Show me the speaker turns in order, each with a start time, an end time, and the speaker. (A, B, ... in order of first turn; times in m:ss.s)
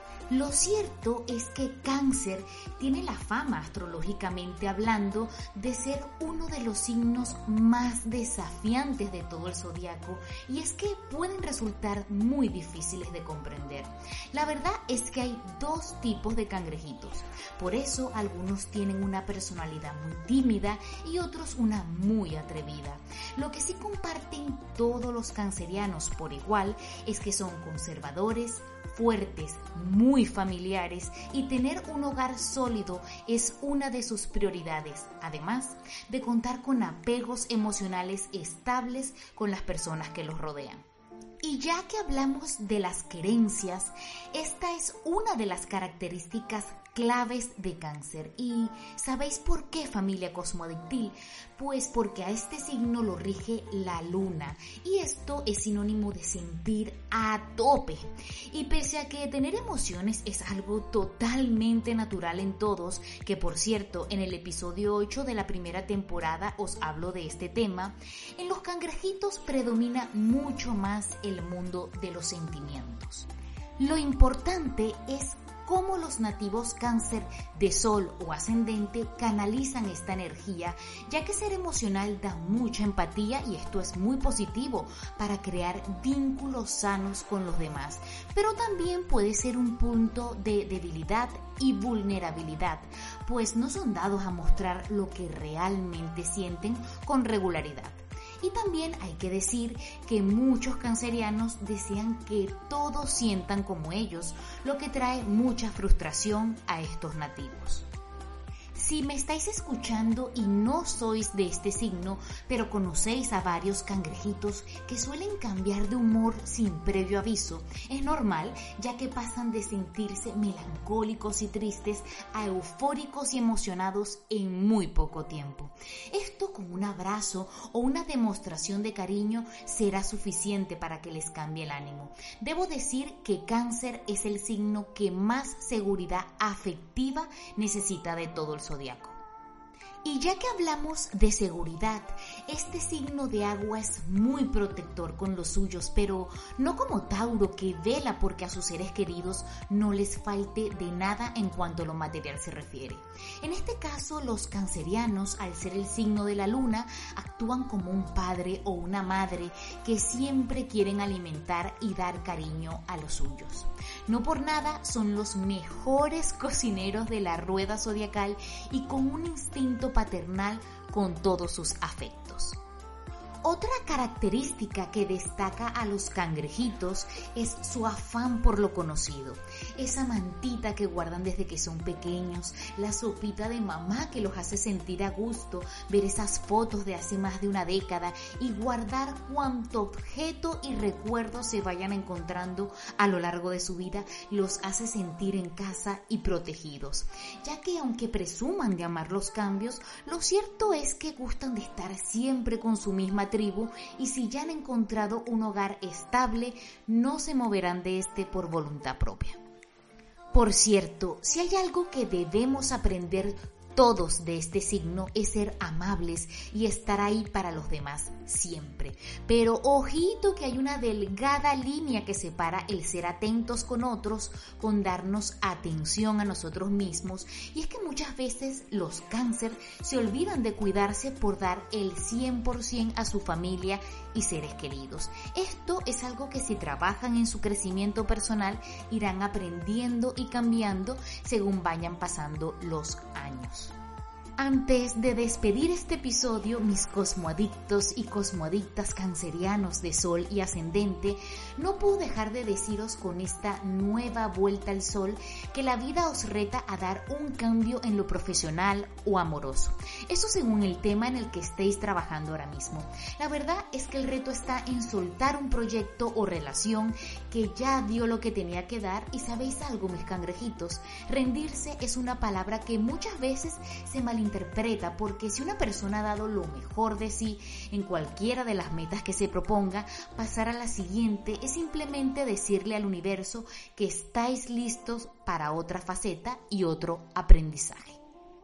0:00.3-0:40.9 A
0:41.4-1:47.9 A
1:48.8-2:19.2 A
2:20.0-2:52.6 A
2:53.4-3:29.4 A
3:30.3-4:03.8 A
4:04.4-4:48.0 A